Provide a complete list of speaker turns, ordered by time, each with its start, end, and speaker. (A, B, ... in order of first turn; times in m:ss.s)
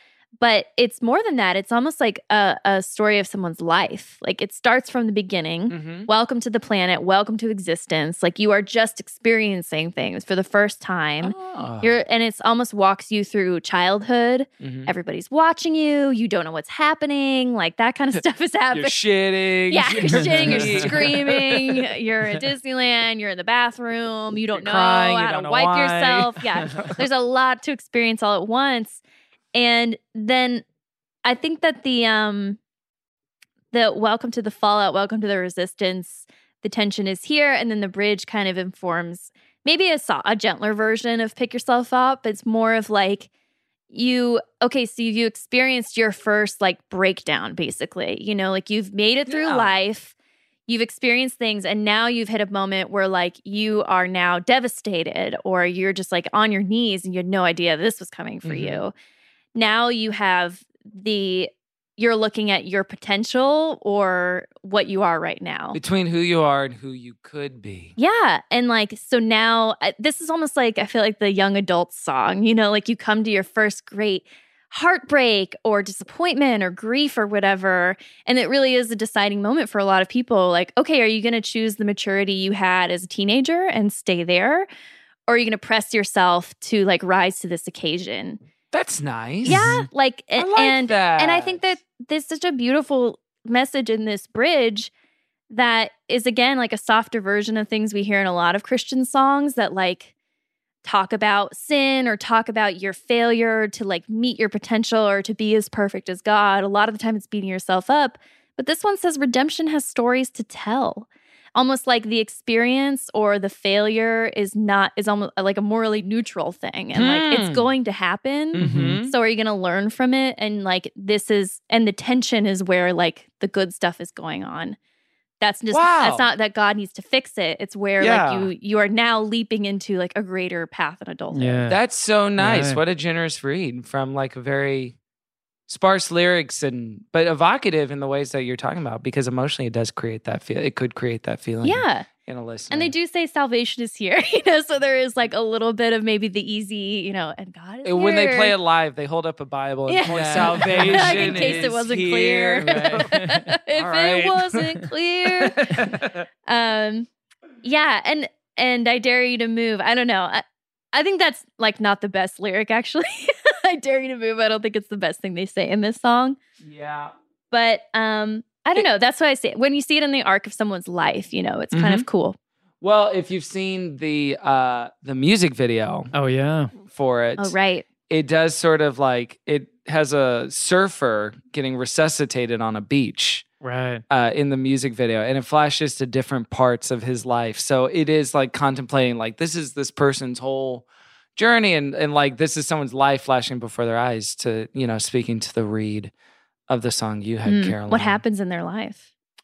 0:00.4-0:19.0 A
0:05.7-0:06.1 B
0:11.2-0:11.9 B
0:14.6-0:14.9 B
0:18.1-0:21.8 B
0:19.7-0:29.0 A
0:20.0-0:21.0 C
0:24.5-0:26.9 B
0:29.5-0:30.6 A
0:31.2-0:32.6 A
0:33.7-0:43.3 A
0:43.9-0:50.1 A
0:49.3-0:49.8 B
0:50.7-0:58.9 A
0:58.4-0:58.8 B
0:59.5-1:05.8 A
1:05.7-1:07.9 B
1:08.0-1:24.7 A
1:25.3-1:28.4 A
1:28.7-1:29.8 B
1:29.4-1:34.9 A
1:29.4-1:29.9 C
1:30.4-1:31.8 B
1:35.5-1:40.1 A
1:40.8-2:04.8 A
1:56.9-1:57.7 B
1:58.5-1:59.1 B
1:58.6-1:59.0 C
2:05.4-2:11.7 A
2:05.7-2:06.3 B
2:08.0-2:08.5 B
2:11.3-2:11.8 C
2:11.7-2:15.0 B
2:12.4-2:12.8 C
2:15.7-2:22.9 B
2:21.6-2:22.1 A
2:22.7-2:28.5 A
2:27.8-2:33.1 B
2:29.9-2:36.0 A
2:30.0-2:31.7 C
2:32.6-2:33.5 C
2:33.7-2:34.7 B
2:35.3-2:36.2 B
2:36.5-2:37.1 A
2:37.6-2:46.4 A
2:46.6-2:47.1 B
2:47.5-2:52.4 A
2:51.7-2:52.0 B
2:52.8-2:56.1 B
2:56.1-2:56.7 C
2:56.8-2:57.5 B
2:57.4-2:57.8 A
2:58.1-3:03.4 B
3:03.6-3:04.0 C
3:04.1-3:10.8 B
3:11.4-3:16.1 B
3:16.7-3:18.2 B
3:17.4-3:19.0 A